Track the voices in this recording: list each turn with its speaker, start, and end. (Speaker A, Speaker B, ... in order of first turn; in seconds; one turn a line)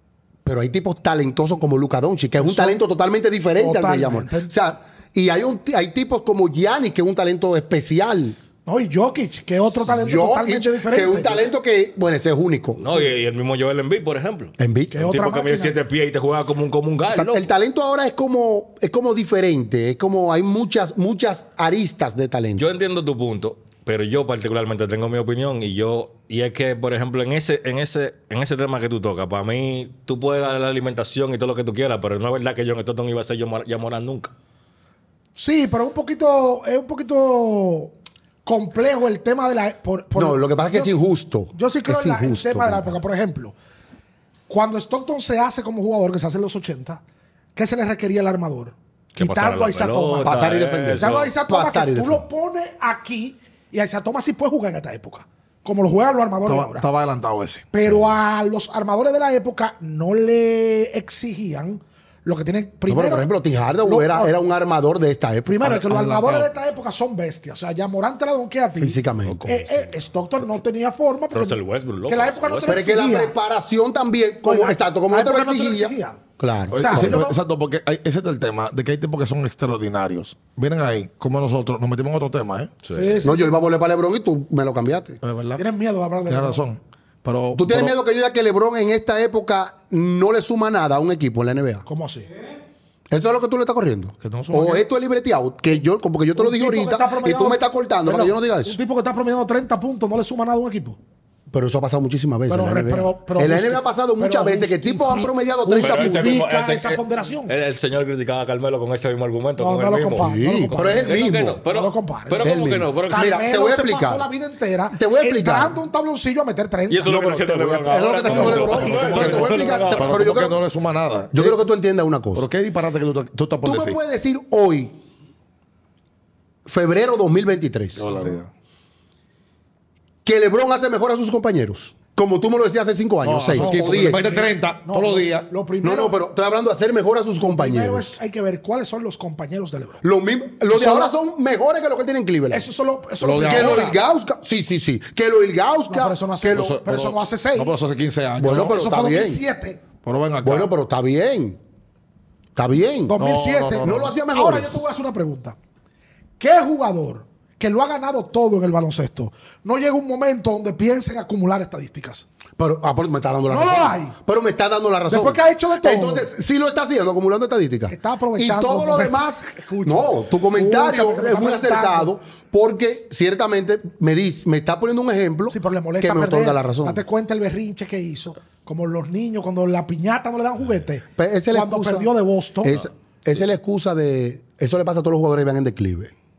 Speaker A: 0.4-8.4
Speaker B: 2.4-2.8
Speaker B: 3.6-4.5
Speaker B: 8.7-11.4
Speaker A: 9.7-13.0
Speaker C: 12.8-17.5
Speaker A: 14.6-15.0
Speaker B: 14.9-15.8
Speaker A: 17.1-22.6
Speaker C: 22.6-34.3
Speaker B: 35.4-37.9
Speaker B: 38.5-41.0
Speaker A: 40.1-43.0
Speaker B: 41.5-43.5
Speaker B: 44.5-47.0
Speaker B: 47.6-50.4
Speaker C: 49.2-51.3
Speaker A: 50.2-52.2
Speaker B: 51.0-56.9
Speaker D: 56.5-57.7
Speaker B: 57.7-63.3
Speaker A: 62.9-65.8
Speaker B: 63.8-64.3
Speaker B: 65.5-73.3
Speaker D: 65.6-66.5
Speaker A: 68.8-69.8
Speaker C: 71.3-72.9
Speaker A: 72.7-77.3
Speaker B: 74.4-76.2
Speaker D: 76.7-82.7
Speaker B: 76.7-77.3
Speaker C: 82.8-83.2
Speaker B: 82.9-83.6
Speaker A: 83.2-85.2
Speaker D: 85.2-85.6
Speaker B: 85.6-86.6
Speaker D: 86.3-88.0
Speaker A: 87.5-91.8
Speaker B: 91.9-92.3
Speaker A: 93.1-98.8
Speaker D: 94.2-94.8
Speaker B: 96.4-101.0
Speaker A: 101.5-106.4
Speaker B: 102.5-107.5
Speaker C: 105.7-113.3
Speaker B: 109.6-111.1
Speaker A: 110.2-111.6
Speaker B: 111.7-112.5
Speaker A: 112.4-114.3
Speaker B: 113.1-117.1
Speaker A: 114.9-115.8
Speaker C: 116.9-120.3
Speaker A: 117.0-120.6
Speaker B: 118.3-119.4
Speaker D: 119.1-121.6
Speaker A: 121.3-122.5
Speaker D: 122.3-124.0
Speaker A: 123.6-125.0
Speaker A: 126.7-128.1
Speaker D: 128.0-128.5
Speaker A: 130.2-134.3
Speaker D: 133.2-135.5
Speaker B: 133.6-136.6
Speaker A: 135.8-138.1
Speaker B: 137.4-140.0
Speaker A: 140.0-142.7
Speaker B: 140.7-141.1
Speaker B: 142.5-144.0
Speaker D: 143.2-143.9
Speaker A: 143.4-146.8
Speaker B: 145.9-147.8
Speaker D: 146.5-148.8
Speaker A: 148.4-149.4
Speaker B: 148.4-149.8
Speaker D: 150.0-150.7
Speaker A: 150.4-151.6
Speaker A: 152.6-153.2
Speaker B: 153.1-155.6
Speaker D: 153.2-154.1
Speaker A: 153.8-154.7
Speaker B: 156.4-162.2
Speaker A: 162.6-177.0
Speaker B: 163.5-164.2
Speaker B: 165.1-166.3
Speaker B: 167.9-172.1
Speaker B: 175.5-182.9
Speaker A: 181.2-186.1